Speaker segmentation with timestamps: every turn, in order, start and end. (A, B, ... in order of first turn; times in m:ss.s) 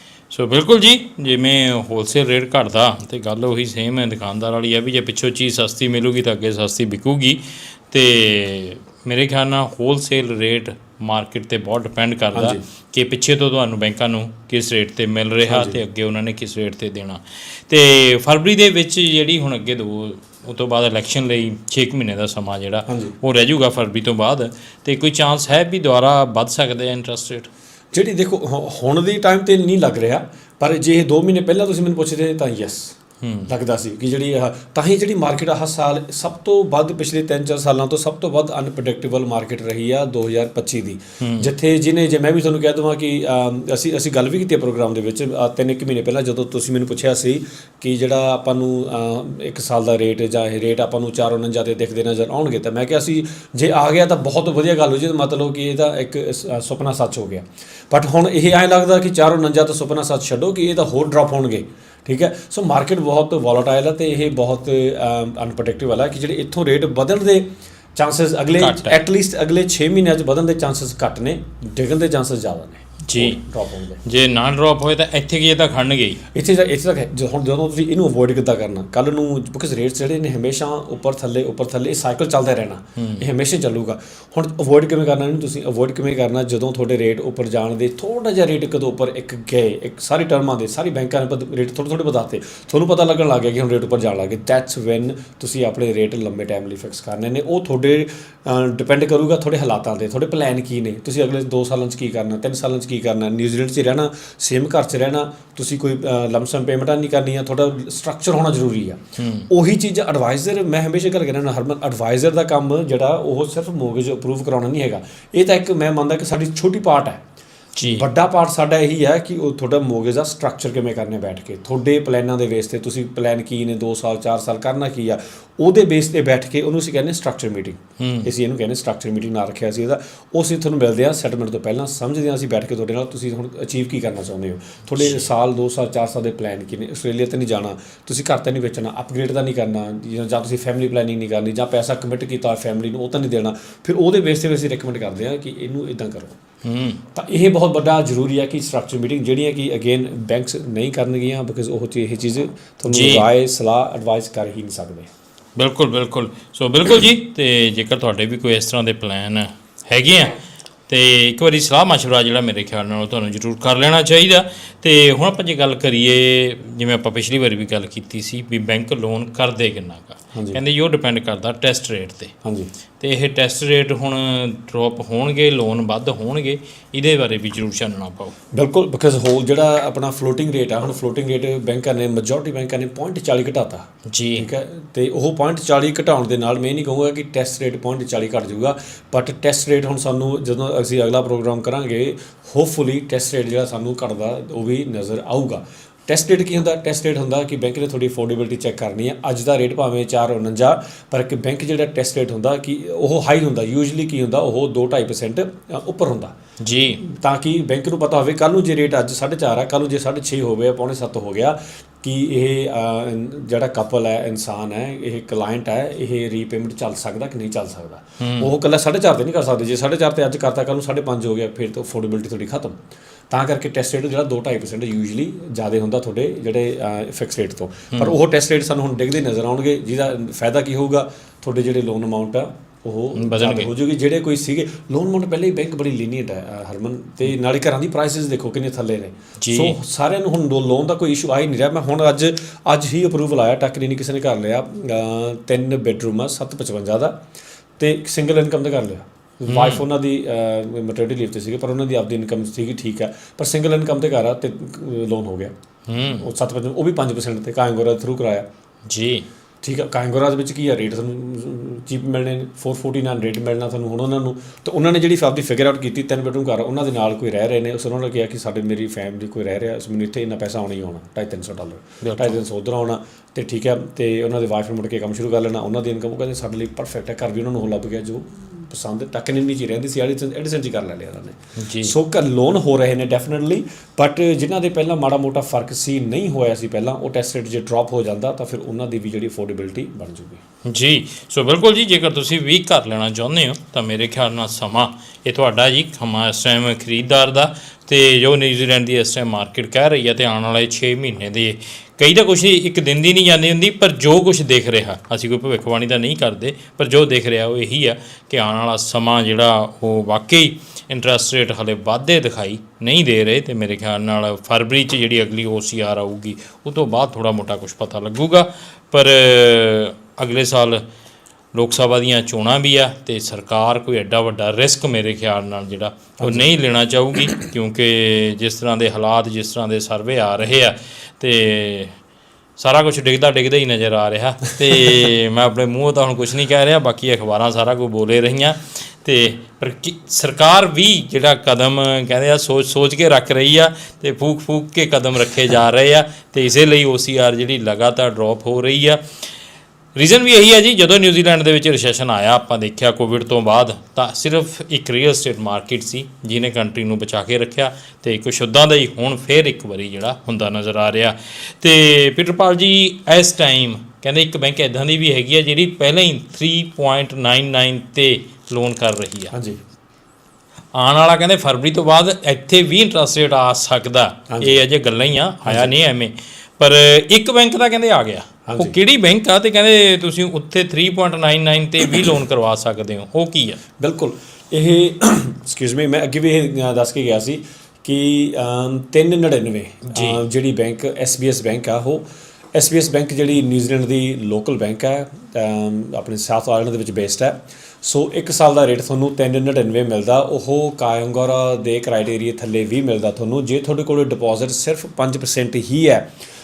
0:00.3-0:27.5 A
0:12.3-0:12.6 B
0:15.5-0:15.8 B
0:22.9-0:23.1 B
0:27.9-0:32.9 B
0:33.2-0:33.5 A
0:33.5-1:14.0 B
0:41.2-0:41.5 A
1:08.6-1:09.0 A
1:13.0-1:13.4 A
1:14.0-1:16.2 A
1:16.3-1:57.2 B
1:23.0-1:23.2 A
1:49.2-1:49.5 A
1:57.8-1:58.0 A
1:57.9-2:26.4 B
2:08.0-2:08.3 A
2:15.0-2:15.3 A
2:26.6-2:27.0 A
2:27.1-2:35.1 B
2:32.9-2:33.3 A
2:35.6-2:52.3 A
2:50.3-2:50.6 B
2:52.4-2:52.7 B
2:53.0-2:58.3 A
2:58.5-3:26.3 B
3:04.1-3:04.5 A
3:26.6-3:27.0 A
3:27.0-3:42.8 B
3:38.2-3:38.5 A
3:43.3-4:07.2 B
3:53.1-3:53.7 A
3:59.4-3:59.8 A
4:07.8-4:15.5 B
4:09.5-4:09.8 A
4:15.9-4:16.2 A
4:16.0-4:18.5 B
4:18.9-4:19.3 A
4:19.6-4:50.4 B
4:32.0-4:32.4 A
4:41.6-4:41.9 A
4:50.6-5:20.8 A
5:21.5-5:32.0 A
5:26.2-5:26.4 B
5:32.6-5:49.2 A
5:49.9-6:09.3 A
6:09.3-6:09.6 B
6:10.7-6:23.6 A
6:14.3-6:14.6 B
6:15.4-6:15.7 B
6:18.4-6:18.8 B
6:23.8-6:46.1 B
6:29.9-6:30.2 A